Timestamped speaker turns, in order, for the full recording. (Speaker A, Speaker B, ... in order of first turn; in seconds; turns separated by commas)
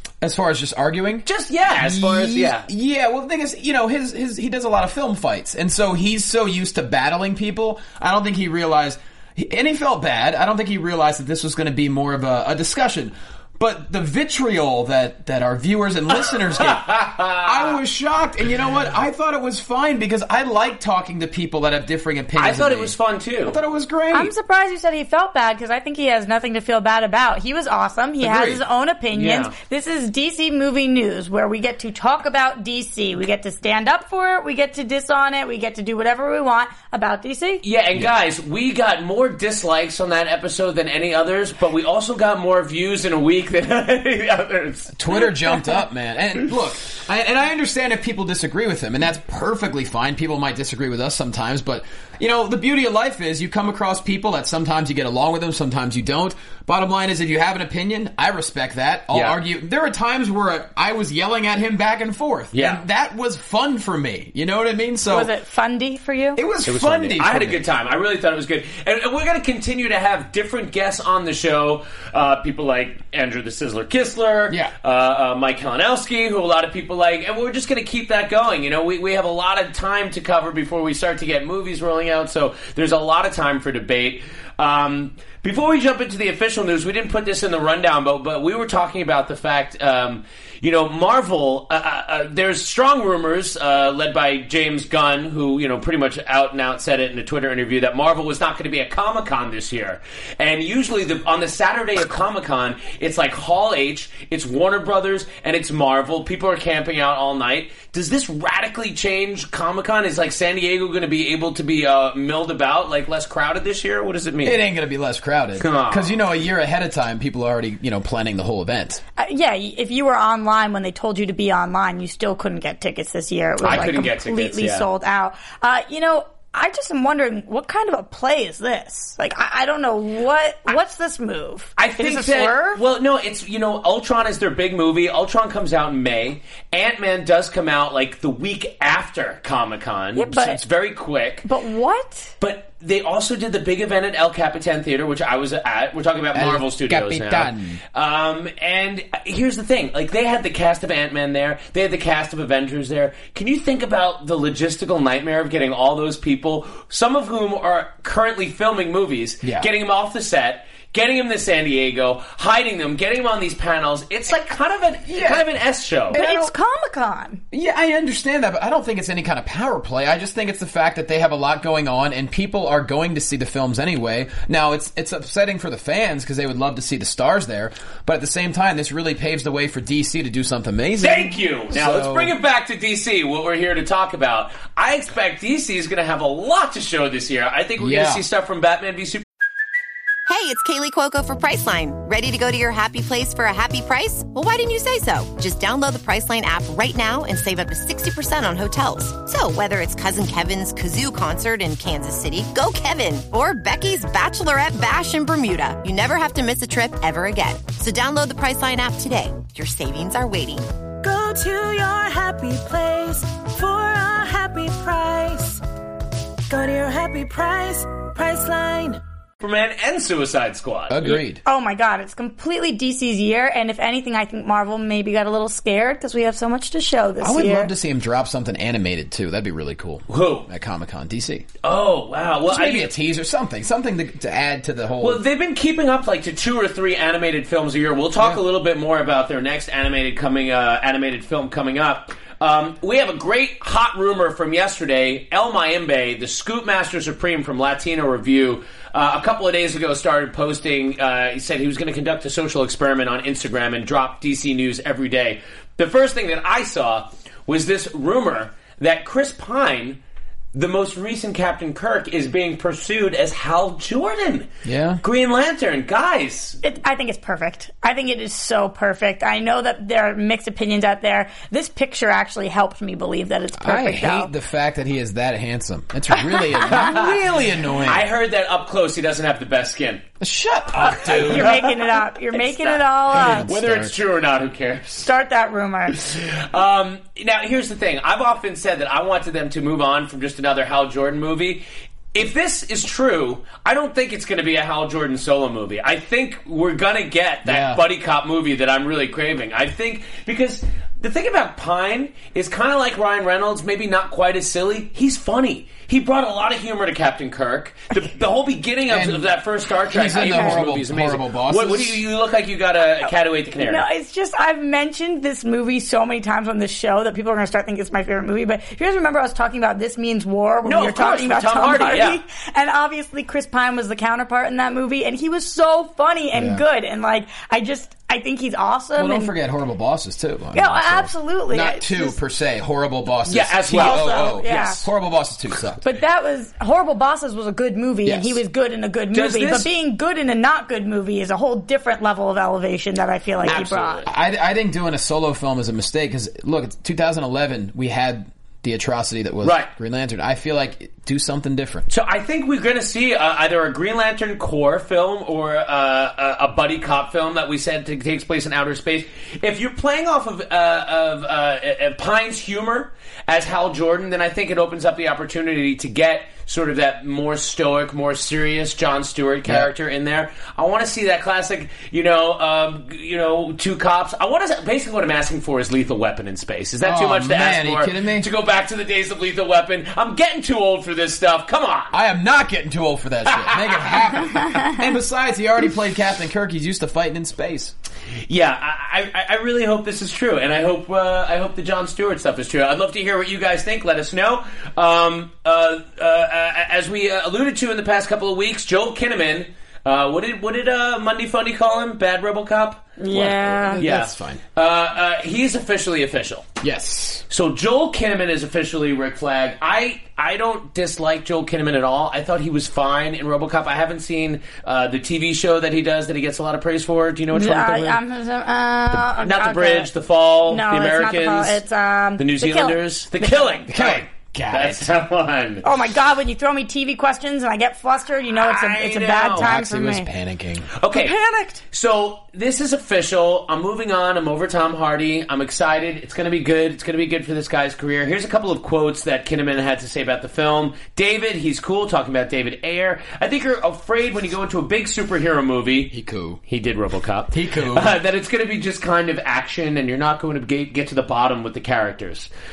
Speaker A: 0.2-24.3, Speaker B: 1.2-2.7, Speaker B: 16.2-17.8, Speaker B: 22.4-23.6, Speaker C: 24.1-37.6, Speaker A: 28.2-28.6, Speaker B: 29.1-29.5, Speaker B: 37.6-45.0, Speaker A: 45.0-65.3, Speaker B: 59.1-59.4, Speaker B: 62.5-62.8, Speaker C: 65.1-66.4, Speaker A: 66.4-67.6, Speaker B: 66.7-114.6, Speaker A: 114.4-119.0, Speaker B: 115.6-116.2, Speaker C: 119.2-132.8, Speaker B: 123.6-124.9, Speaker B: 131.8-141.5, Speaker C: 140.1-140.6, Speaker C: 141.4-142.3, Speaker B: 142.4-166.5, Speaker A: 146.3-147.8, Speaker A: 159.4-159.7, Speaker A: 165.1-165.4, Speaker C: 166.1-167.4, Speaker A: 167.5-182.3, Speaker B: 181.0-189.2, Speaker A: 187.8-188.2, Speaker D: 190.3-210.7, Speaker E: 211.0-215.6, Speaker E: 216.5-219.0, Speaker B: 219.4-221.2, Speaker A: 220.9-221.4, Speaker C: 221.4-227.7, Speaker A: 227.2-231.4, Speaker B: 230.1-230.5, Speaker B: 231.6-232.9, Speaker A: 232.5-235.2, Speaker B: 235.0-260.0, Speaker B: 260.5-264.5, Speaker A: 264.6-265.0, Speaker B: 265.0-266.6, Speaker C: 266.6-274.3, Speaker A: 273.6-278.1, Speaker B: 276.7-277.2, Speaker B: 277.8-280.0, Speaker A: 280.2-281.6, Speaker B: 280.8-285.1, Speaker C: 281.0-283.4, Speaker A: 283.1-283.9, Speaker C: 285.0-286.0, Speaker B: 285.9-313.8, Speaker A: 297.4-297.8, Speaker A: 308.9-309.3, Speaker A: 309.9-312.0, Speaker C: 310.2-310.5, Speaker C: 313.6-329.3, Speaker B: 320.6-322.2, Speaker A: 326.3-326.6, Speaker A: 328.9-335.8, Speaker C: 330.5-332.2, Speaker B: 333.2-334.7, Speaker C: 333.8-334.8, Speaker C: 335.8-344.0, Speaker A: 338.1-338.4, Speaker B: 339.1-339.7, Speaker B: 343.4-344.1, Speaker A: 344.1-351.9, Speaker B: 349.4-349.7, Speaker B: 351.9-381.9, Speaker A: 376.8-378.3, Speaker A: 381.9-387.7, Speaker B: 383.2-384.1, Speaker B: 388.3-406.5, Speaker C: 403.0-403.8, Speaker A: 403.1-404.4, Speaker A: 406.6-407.2, Speaker B: 407.3-418.0, Speaker C: 417.3-419.9, Speaker B: 418.9-421.6, Speaker C: 420.5-423.7, Speaker B: 422.2-425.6, Speaker A: 423.7-424.9, Speaker C: 425.6-430.1, Speaker B: 428.4-429.5, Speaker A: 429.3-430.7, Speaker B: 430.8-445.9, Speaker C: 431.0-431.6, Speaker A: 445.9-446.4, Speaker B: 446.5-452.3, Speaker A: 447.3-447.9